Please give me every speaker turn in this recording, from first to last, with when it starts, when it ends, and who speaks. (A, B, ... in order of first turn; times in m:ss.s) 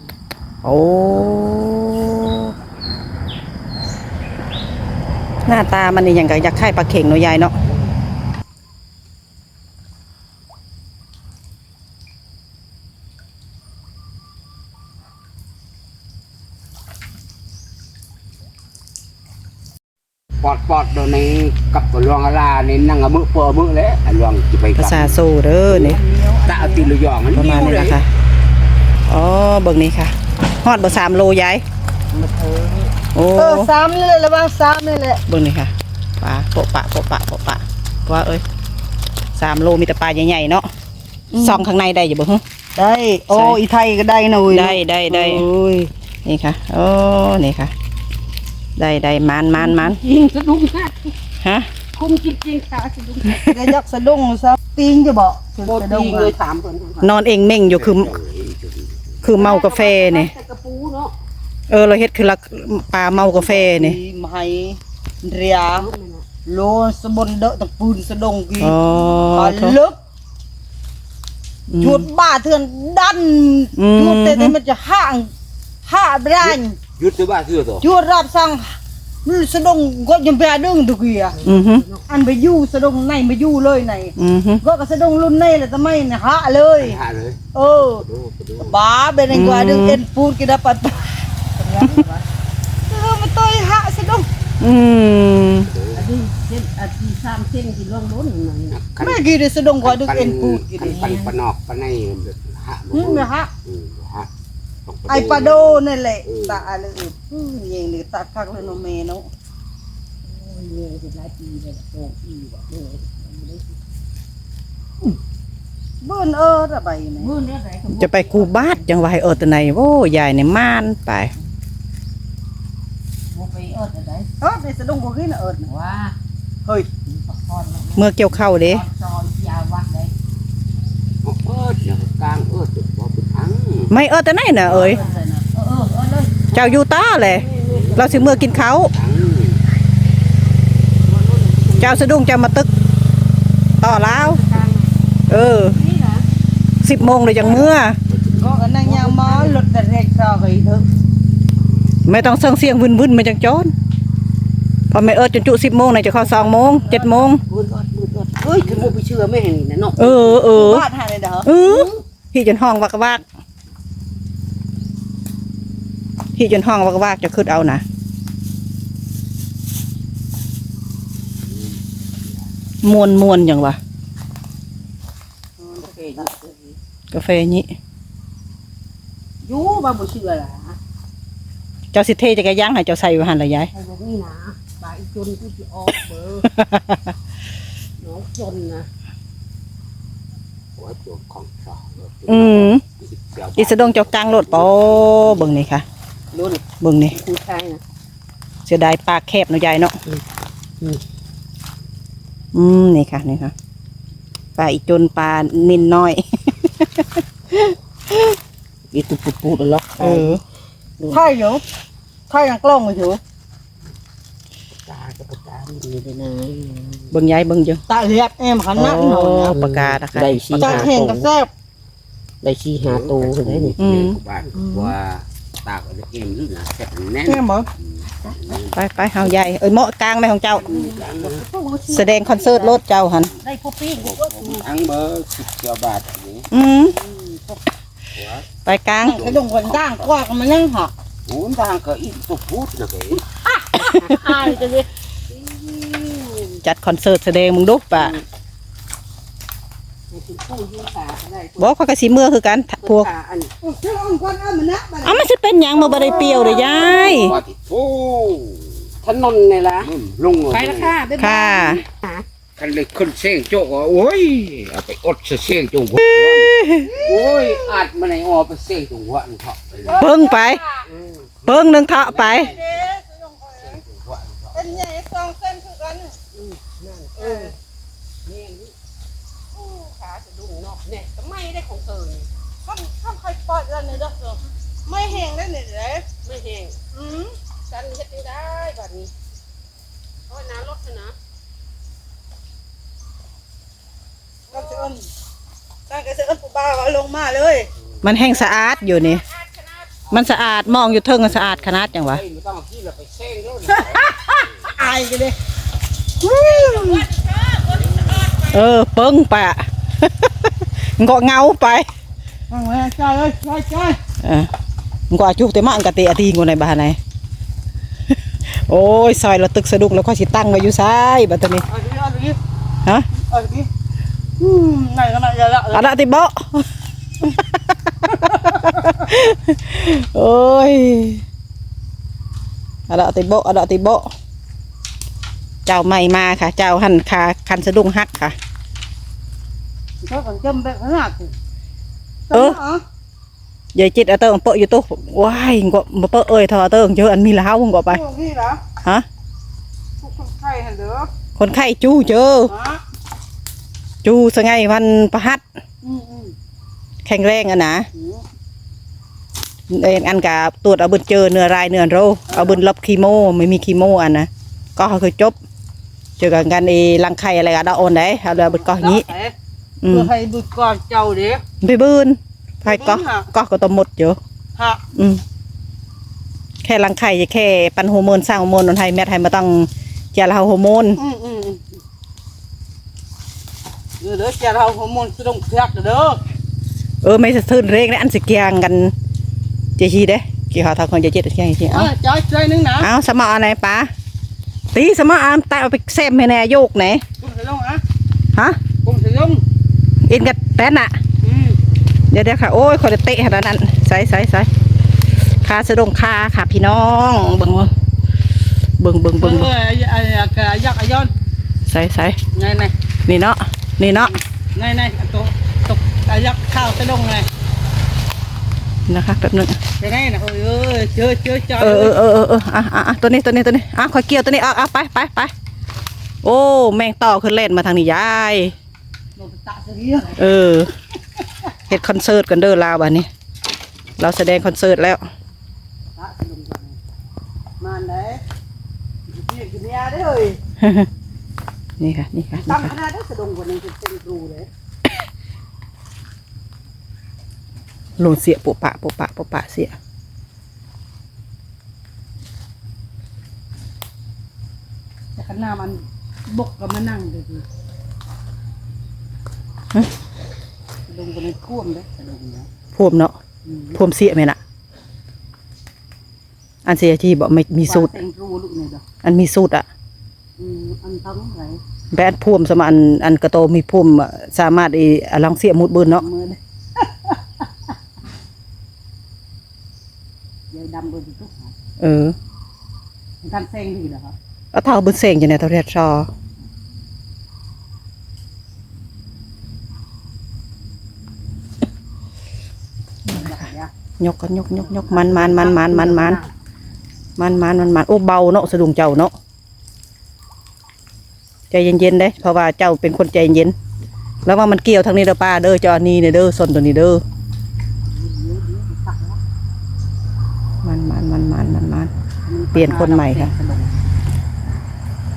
0:00.6-0:02.5 A
0:05.4-0:07.5 A
0:20.4-0:28.0 B
0:24.8-0:26.0 A
0:25.8-0:26.9 C
0:27.3-0:28.1 A
0:29.1-0:31.6 A
0:32.1-0:32.9 D
0:33.1-0:33.7 A
0:33.3-0:35.2 C
0:35.3-0:38.4 A
0:39.3-0:40.7 A
0:41.3-0:41.6 C
0:41.4-0:42.4 A
0:42.8-0:45.9 C
0:43.3-0:43.6 A
0:44.5-0:45.4 A
0:46.2-0:47.7 A
0:48.8-0:50.0 A
0:49.6-0:51.1 D
0:51.4-0:51.7 A
0:51.9-0:53.4 D
0:53.3-0:56.3 C
0:55.6-0:57.1 D
0:57.0-0:58.2 A
0:57.6-0:59.1 B
0:59.2-1:00.3 A
0:59.3-1:01.1 D
1:01.7-1:04.0 A
1:03.2-1:05.9 C
1:05.6-1:06.2 D
1:06.4-1:08.8 C
1:08.6-1:09.8 A
1:09.3-1:10.0 C
1:11.7-1:12.0 A
1:11.8-1:15.3 C
1:13.8-1:14.6 A
1:15.8-1:16.8 C
1:16.4-1:17.9 B
1:17.8-1:18.7 C
1:19.2-1:21.4 C
1:21.3-1:22.0 D
1:21.4-1:21.8 A
1:22.1-1:27.0 C
1:24.2-1:24.6 A
1:26.8-1:28.8 B
1:27.5-1:28.0 C
1:28.6-1:32.2 C
1:29.3-1:30.0 A
1:32.9-1:34.3 C
1:34.6-1:35.7 A
1:35.6-1:36.1 B
1:35.9-1:38.8 D
1:38.7-1:39.2 B
1:39.0-1:41.0 C
1:39.8-1:44.3 B
1:40.8-1:41.3 D
1:42.9-1:43.5 C
1:44.8-1:46.7 B
1:45.1-1:49.3 C
1:50.3-1:53.8 D
1:56.0-1:57.3 C
1:57.2-1:58.8 D
1:57.9-2:01.3 A
2:03.3-2:04.3 D
2:04.4-2:05.7 C
2:05.6-2:06.1 D
2:07.0-2:10.1 D
2:08.0-2:08.8 A
2:11.2-2:13.9 B
2:13.9-2:15.0 A
2:14.6-2:18.7 D
2:16.5-2:18.9 A
2:17.6-2:19.6 B
2:21.0-2:22.0 D
2:21.8-2:22.7 A
2:23.8-2:24.4 A
2:23.8-2:24.9 D
2:25.3-2:25.8 A
2:25.5-2:26.2 D
2:26.8-2:28.0 A
2:27.4-2:28.5 B
2:28.3-2:29.6 D
2:28.4-2:30.9 C
2:32.0-2:33.7 A
2:34.9-2:37.4 A
2:36.1-2:37.3 C
2:37.4-2:40.5 D
2:38.6-2:38.9 B
2:40.0-2:40.8 A
2:40.5-2:41.5 C
2:41.4-2:43.2 A
2:41.6-2:42.0 D
2:46.4-2:47.8 A
2:52.8-2:53.8 A
2:55.6-2:56.3 C
2:55.8-2:56.8 D
2:57.1-2:57.7 A
2:59.4-3:00.8 D
3:01.9-3:03.7 A
3:03.7-3:06.5 D
3:06.6-3:07.0 A
3:08.0-3:08.9 D
3:10.8-3:15.6 B
3:12.3-3:12.8 A
3:13.6-3:15.8 A
3:16.3-3:17.8 D
3:16.8-3:17.2 A
3:18.6-3:19.9 A
3:22.5-3:23.5 A
3:24.6-3:28.4 A
3:28.9-3:30.3 D
3:30.0-3:30.4 A
3:31.1-3:31.6 C
3:32.3-3:33.2 C
3:34.8-3:37.1 D
3:37.1-3:37.8 A
3:37.9-3:39.6 C
3:38.8-3:40.8 A
3:39.5-3:41.3 D
3:40.6-3:41.5 C
3:42.4-3:43.7 D
3:42.8-3:48.8 B
3:43.8-3:44.2 A
3:44.5-3:44.9 D
3:47.3-3:47.7 C
3:48.7-3:50.8 A
3:50.6-3:52.7 D
3:50.6-3:51.4 B
3:51.6-3:52.7 C
3:51.9-3:53.3 A
3:53.4-3:54.6 D
3:53.9-3:56.5 B
3:56.5-3:56.9 A
3:57.0-3:57.6 D
3:58.2-4:00.0 B
3:58.6-3:59.2 A
3:59.1-4:00.9 C
4:01.3-4:03.2 B
4:03.7-4:06.6 D
4:03.8-4:04.0 A
4:06.6-4:08.1 A
4:07.9-4:08.2 D
4:10.1-4:11.7 D
4:11.6-4:13.1 A
4:12.8-4:13.5 D
4:13.6-4:15.2 C
4:15.0-4:17.4 A
4:15.8-4:17.2 C
4:16.2-4:17.0 D
4:16.5-4:18.9 B
4:19.0-4:19.9 D
4:19.8-4:21.0 B
4:20.5-4:22.2 D
4:21.2-4:21.8 A
4:22.6-4:30.1 B
4:26.0-4:27.0 A
4:26.8-4:27.7 C
4:29.8-4:30.8 C
4:30.0-4:30.6 A
4:30.9-4:31.3 D
4:31.4-4:32.9 B
4:31.4-4:32.6 A
4:32.4-4:33.8 C
4:33.8-4:34.7 B
4:34.5-4:36.2 C
4:36.3-4:37.5 D
4:37.2-4:37.5 C
4:38.2-4:38.7 D
4:39.6-4:42.3 D
4:42.6-4:46.1 C
4:46.2-4:46.8 D
4:46.9-4:47.4 C
4:47.6-4:49.1 D
4:50.3-4:51.2 D
4:54.5-4:55.0 C
4:55.9-4:57.7 C
4:58.0-4:59.2 A
5:00.1-5:02.2 A
5:00.1-5:04.1 B
5:03.7-5:05.3 C
5:06.2-5:07.2 C
5:08.4-5:11.9 A
5:12.5-5:14.0 C
5:14.2-5:14.5 A
5:15.1-5:17.0 A
5:18.5-5:21.6 A
5:21.7-5:22.4 C
5:23.1-5:23.7 C
5:24.4-5:25.9 C
5:25.7-5:26.7 A
5:27.2-5:31.2 A
5:32.9-5:34.1 A
5:35.6-5:38.4 A
5:40.0-5:41.4 C
5:42.3-5:42.8 C
5:42.3-5:42.6 A
5:43.7-5:48.0 A
5:47.9-5:48.6 C
5:50.0-5:51.1 C
5:51.4-5:52.5 A
5:52.5-5:52.8 C
5:54.0-5:55.4 A
5:55.8-5:56.3 C
5:57.0-5:57.9 A
5:57.9-5:58.2 C
5:59.7-6:05.4 A
6:02.3-6:02.6 C
6:06.2-6:09.1 A
6:08.4-6:09.3 C
6:09.8-6:10.1 A
6:09.9-6:11.4 C
6:11.6-6:14.2 A
6:12.6-6:13.3 C
6:14.6-6:14.8 C
6:14.9-6:15.2 A
6:16.6-6:21.0 A
6:21.0-6:21.6 C
6:24.0-6:26.2 C
6:27.0-6:28.9 A
6:29.8-6:31.9 A
6:31.7-6:32.9 C
6:32.8-6:33.9 A
6:34.7-6:37.0 A
6:37.2-6:37.8 C
6:38.8-6:39.4 C
6:40.0-6:40.9 A
6:41.2-6:41.6 C
6:42.1-6:44.5 A
6:45.4-6:47.7 A
6:48.8-6:49.5 A
6:49.2-6:51.1 C
6:51.7-6:52.2 A
6:52.3-6:52.7 C
6:53.1-6:54.1 A
6:53.8-6:57.3 C
6:58.9-6:59.6 A
6:59.8-7:02.0 C
7:01.6-7:05.3 A
7:06.2-7:08.5 A
7:09.2-7:10.3 C
7:10.2-7:10.7 A
7:11.7-7:13.1 A
7:14.0-7:15.0 A
7:16.0-7:16.8 C
7:17.6-7:18.2 C
7:19.1-7:20.4 C
7:20.6-7:20.9 A
7:21.8-7:22.7 A
7:22.4-7:24.5 C
7:28.0-7:29.8 A
7:35.2-7:37.4 C
7:40.9-7:42.5 C
7:42.8-7:43.2 A
7:43.4-7:43.8 C
7:43.7-7:44.4 A
7:46.6-7:48.0 A
7:47.6-7:48.8 C
7:49.0-7:49.6 A
7:50.4-7:51.6 C
7:51.9-7:56.0 A
7:55.9-7:57.4 C
8:00.5-8:01.5 C
8:01.8-8:02.1 A
8:03.2-8:04.1 C
8:04.5-8:06.1 A
8:13.1-8:13.7 C
8:14.0-8:16.2 A
8:14.7-8:16.3 C
8:17.2-8:19.1 A
8:21.5-8:23.5 A
8:24.2-8:27.0 A
8:27.9-8:29.2 C
8:30.6-8:31.9 A
8:32.3-8:33.8 C
8:32.5-8:33.3 A